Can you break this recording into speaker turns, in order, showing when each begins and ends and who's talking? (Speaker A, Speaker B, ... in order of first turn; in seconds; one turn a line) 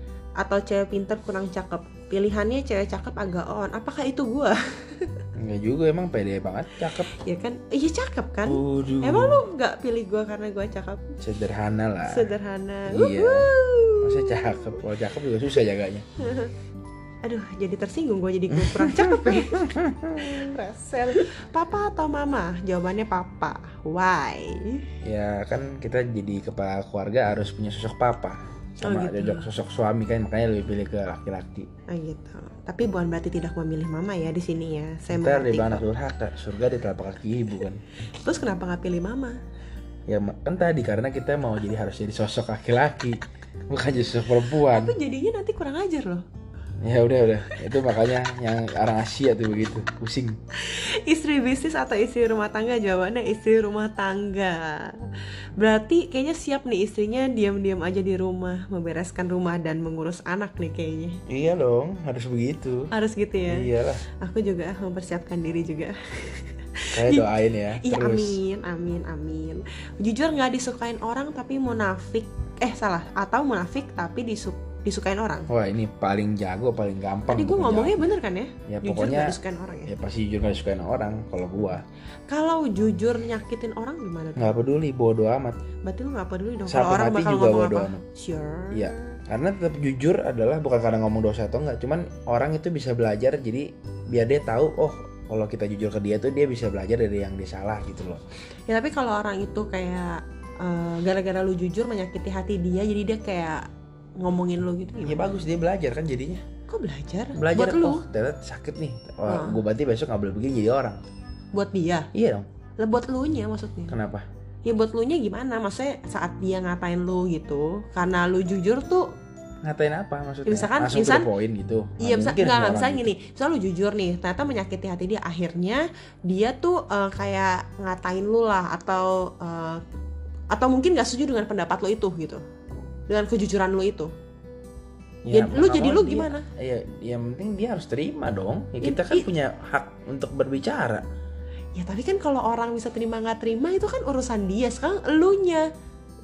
Speaker A: 0.4-5.3
Speaker B: 5.3-7.1
Speaker A: 6.9-11.2
Speaker B: 8.5-9.4
Speaker B: 11.2-12.3
Speaker A: 12.1-14.8
Speaker B: 12.9-13.5
Speaker B: 14.0-16.1
Speaker A: 16.2-16.5
Speaker A: 17.2-24.9
Speaker B: 18.5-20.4
Speaker B: 25.0-31.7
Speaker A: 28.8-29.5
Speaker A: 31.9-35.9
Speaker B: 35.1-37.8
Speaker A: 38.2-39.4
Speaker B: 40.1-45.0
Speaker A: 44.6-46.2
Speaker B: 46.8-50.4
Speaker A: 50.6-61.2
Speaker B: 61.3-62.9
Speaker A: 62.9-63.7
Speaker B: 63.5-64.0
Speaker A: 64.2-75.5
Speaker B: 66.9-68.4
Speaker B: 75.5-78.1
Speaker A: 77.3-79.9
Speaker B: 78.7-81.8
Speaker A: 82.3-84.7
Speaker B: 84.4-85.6
Speaker A: 85.8-89.2
Speaker B: 86.7-88.0
Speaker B: 88.7-98.2
Speaker A: 98.7-103.7
Speaker A: 104.2-105.2
Speaker B: 105.0-106.4
Speaker A: 106.7-108.0
Speaker B: 107.3-111.0
Speaker A: 109.3-109.6
Speaker A: 111.5-112.1
Speaker B: 112.1-112.5
Speaker A: 112.8-114.0
Speaker B: 113.9-114.3
Speaker A: 114.7-119.1
Speaker B: 119.6-123.1
Speaker A: 120.5-121.3
Speaker A: 122.0-129.8
Speaker A: 130.5-132.4
Speaker A: 133.1-134.1
Speaker B: 135.2-141.0
Speaker A: 135.3-136.5
Speaker A: 138.8-139.3
Speaker A: 141.8-145.7